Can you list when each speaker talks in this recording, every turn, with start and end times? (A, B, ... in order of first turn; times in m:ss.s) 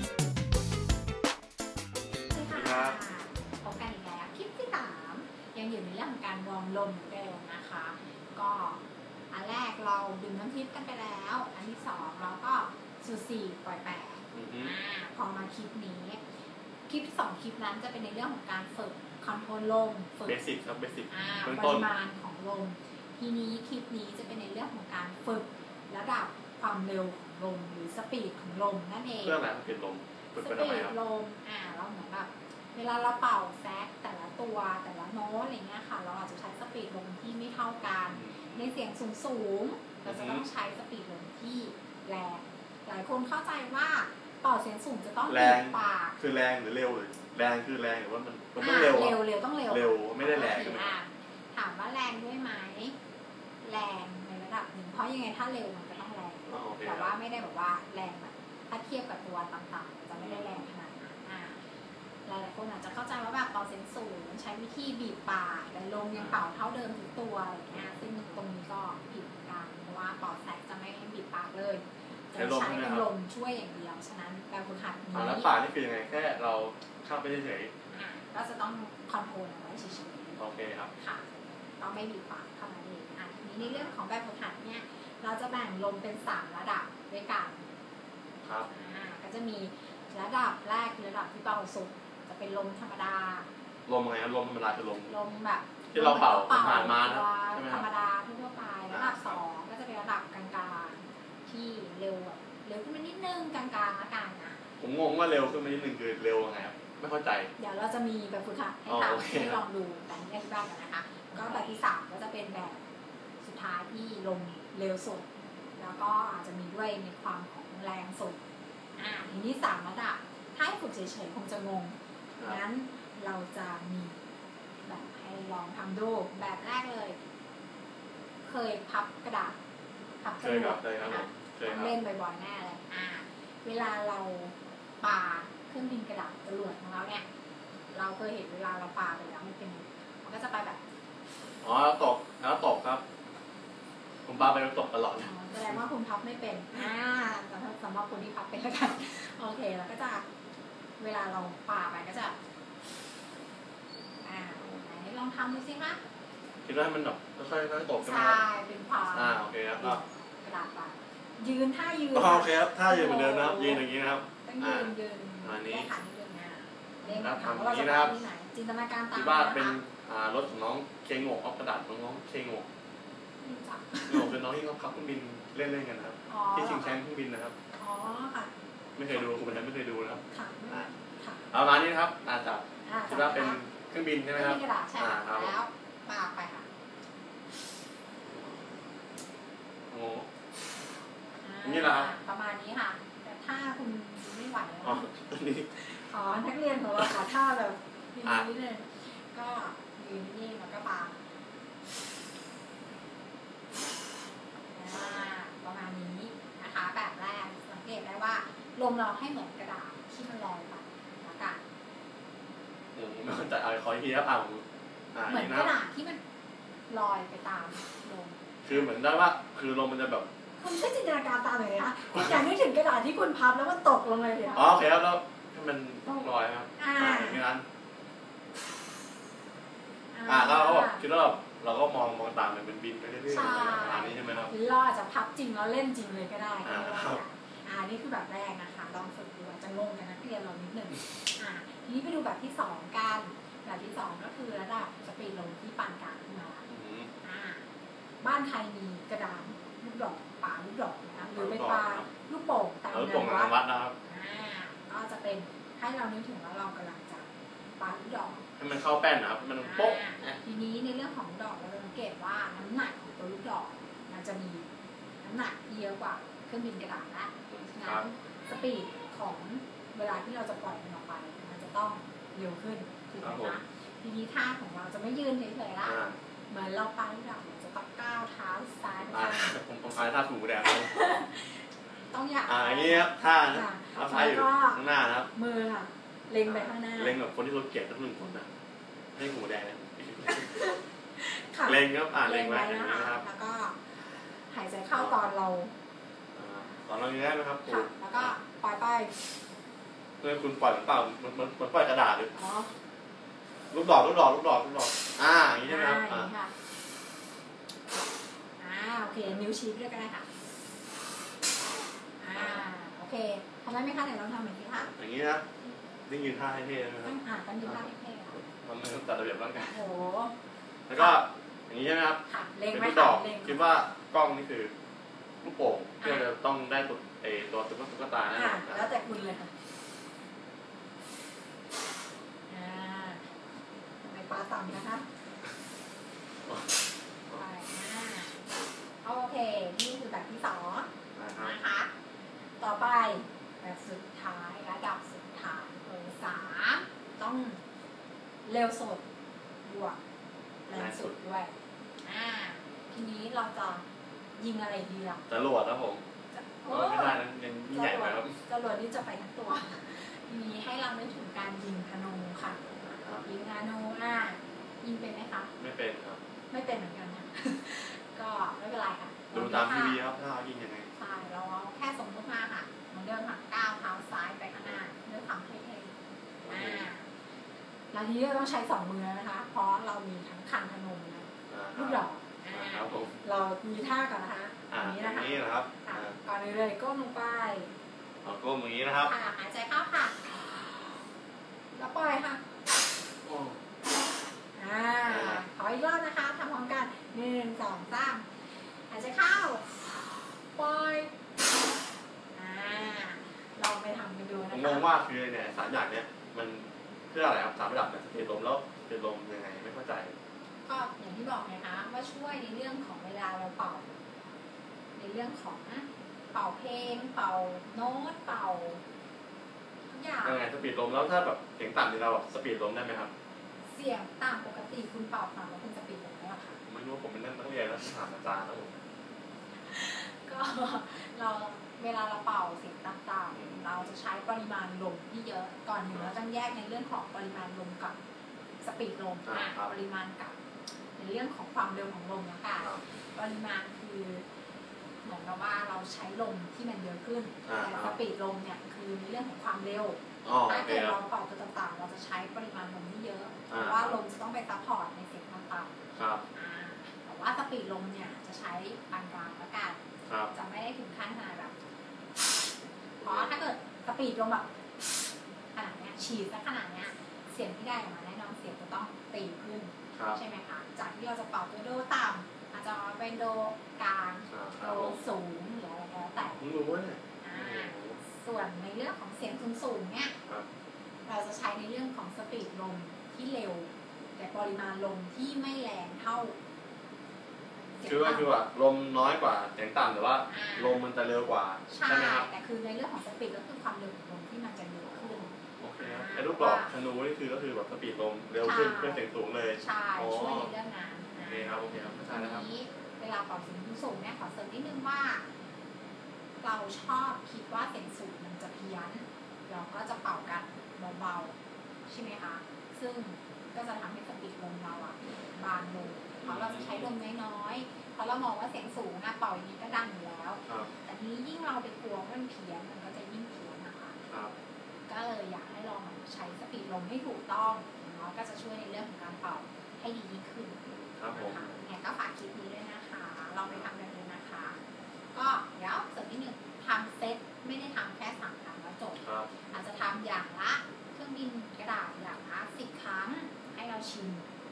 0:02.3-0:08.8 A
0:02.5-0:03.0 B
0:09.3-0:16.2 A
0:14.3-0:14.7 B
0:16.9-0:20.4 A
0:20.3-0:21.9 B
0:21.1-0:29.4 A
0:29.2-0:30.9 B
0:30.4-0:46.2 A
0:38.1-0:38.6 B
0:40.0-0:40.4 B
0:45.3-0:49.2 B
0:48.6-0:53.0 A
0:49.7-0:51.0 B
0:53.6-1:01.6 A
0:56.5-0:57.1 B
1:00.2-1:00.6 B
1:02.3-1:15.5 A
1:12.3-1:13.1 B
1:15.1-1:17.7 B
1:17.9-1:20.4 A
1:20.4-1:20.9 B
1:21.0-1:27.7 A
1:23.6-1:23.9 B
1:28.4-1:28.7 B
1:28.7-1:33.5 A
1:33.9-1:35.2 B
1:35.1-1:44.6 A
1:35.9-1:37.9 B
1:38.9-1:39.4 B
1:44.8-1:47.5 B
1:47.6-1:52.8 A
1:48.9-1:49.6 B
1:51.4-1:51.7 B
1:53.4-1:55.3 A
1:55.8-1:58.4 A
1:59.0-2:04.2 A
2:04.8-2:07.2 A
2:08.4-2:09.6 A
2:10.2-2:17.3 A
2:10.4-2:12.0 B
2:17.9-2:20.8 A
2:21.6-2:23.0 B
2:24.3-2:25.8 B
2:25.2-2:30.2 A
2:31.0-2:32.4 A
2:34.2-2:36.0 A
2:34.6-2:34.8 B
2:36.6-2:38.4 B
2:38.0-2:43.8 A
2:39.1-2:40.0 B
2:42.1-2:44.9 B
2:44.4-2:49.8 A
2:45.4-2:45.9 B
2:47.1-2:48.2 B
2:49.1-2:52.7 B
2:53.4-2:54.4 A
2:54.1-2:57.6 B
2:56.3-2:57.0 A
2:57.8-2:58.5 A
2:59.0-3:00.9 B
3:00.3-3:01.5 A
3:01.5-3:05.6 B
3:02.9-3:03.6 A
3:04.3-3:06.7 A
3:09.9-3:10.3 B
3:11.4-3:15.1 A
3:11.6-3:12.1 B
3:14.8-3:15.7 B
3:15.7-3:21.2 A
3:24.8-3:31.6 A
3:33.0-3:35.8 B
3:35.3-3:36.2 A
3:36.9-3:38.8 A
3:38.6-3:40.3 B
3:40.6-3:44.7 A
3:44.5-3:47.6 B
3:46.8-3:47.4 A
3:50.1-3:51.0 A
3:50.3-3:54.5 B
3:53.3-4:06.7 A
3:56.6-3:57.2 B
4:06.7-4:07.1 B
4:07.2-4:07.6 A
4:08.2-4:13.5 A
4:11.3-4:12.1 B
4:12.9-4:14.0 B
4:14.0-4:17.3 A
4:17.8-4:18.5 A
4:18.6-4:20.4 B
4:19.6-4:24.7 A
4:25.2-4:39.6 A
4:27.5-4:28.1 B
4:33.2-4:33.6 B
4:35.8-4:36.2 B
4:39.1-4:40.9 B
4:40.7-4:44.8 A
4:42.5-4:45.3 B
4:45.3-4:47.2 A
4:46.5-4:48.5 B
4:49.2-4:50.5 B
4:50.3-4:53.9 A
4:51.6-4:53.2 B
4:54.5-4:55.7 A
4:54.9-4:55.2 B
4:56.4-4:58.3 B
4:57.7-4:59.1 A
5:00.2-5:02.3 B
5:02.4-5:02.7 A
5:03.7-5:06.3 B
5:05.6-5:06.5 A
5:08.6-5:10.3 A
5:12.2-5:14.9 A
5:12.4-5:12.6 B
5:14.8-5:15.5 B
5:16.1-5:17.8 B
5:17.0-5:18.4 A
5:18.4-5:19.8 B
5:19.7-5:20.4 A
5:20.9-5:24.7 B
5:22.3-5:23.6 A
5:25.4-5:28.9 B
5:26.0-5:26.3 A
5:28.3-5:29.5 A
5:32.5-5:33.3 A
5:34.0-5:35.1 A
5:37.3-5:38.4 A
5:39.0-5:41.9 A
5:41.2-5:41.6 B
5:42.6-5:47.6 A
5:48.5-5:49.0 A
5:49.6-5:50.0 A
5:50.7-5:51.5 A
5:50.7-5:51.2 B
5:52.0-5:53.8 A
5:54.4-5:55.2 A
5:55.3-5:56.0 B
5:56.3-6:02.6 A
5:56.7-5:58.3 B
6:02.8-6:03.2 B
6:03.2-6:05.5 A
6:05.6-6:06.2 B
6:06.5-6:10.0 A
6:09.3-6:10.9 B
6:11.0-6:16.0 A
6:14.5-6:14.8 B
6:16.4-6:16.9 B
6:16.5-6:17.1 A
6:17.9-6:27.7 A
6:21.5-6:23.2 B
6:24.7-6:26.2 B
6:28.2-6:29.1 B
6:29.0-6:30.4 A
6:31.7-6:32.4 A
6:33.2-6:33.6 B
6:34.6-6:38.3 A
6:35.0-6:35.4 B
6:38.9-6:41.1 A
6:42.4-6:44.9 A
6:44.5-6:50.2 B
6:50.7-6:53.9 A
6:55.0-6:58.8 A
6:59.9-7:00.4 A
7:00.2-7:03.1 B
7:03.7-7:06.6 A
7:06.7-7:08.7 B
7:09.7-7:18.0 A
7:13.3-7:13.9 B
7:18.6-7:20.4 A
7:19.3-7:19.7 B
7:21.0-7:24.2 A
7:25.0-7:35.7 A
7:27.5-7:28.0 B
7:30.2-7:31.0 B
7:33.5-7:34.0 B
7:36.0-7:36.2 B
7:36.3-7:39.8 A
7:40.1-7:40.3 B
7:40.3-7:41.6 A
7:43.0-7:43.3 B
7:43.0-7:44.5 A
7:45.5-7:56.4 A
7:54.3-7:55.0 B
7:56.2-7:58.0 B
7:57.2-8:00.2 A
8:01.1-8:06.4 A
8:07.8-8:08.3 A
8:07.8-8:12.3 B
8:10.3-8:10.8 A
8:11.7-8:16.7 A
8:14.9-8:20.5 B
8:18.4-8:19.0 A
8:19.6-8:25.2 A
8:21.2-8:22.4 B
8:26.4-8:31.4 A
8:31.9-8:44.0 A
8:36.2-8:36.9 B
8:44.9-8:54.6 A
8:50.6-8:51.6 B
8:55.1-9:04.3 A
8:59.0-8:59.3 B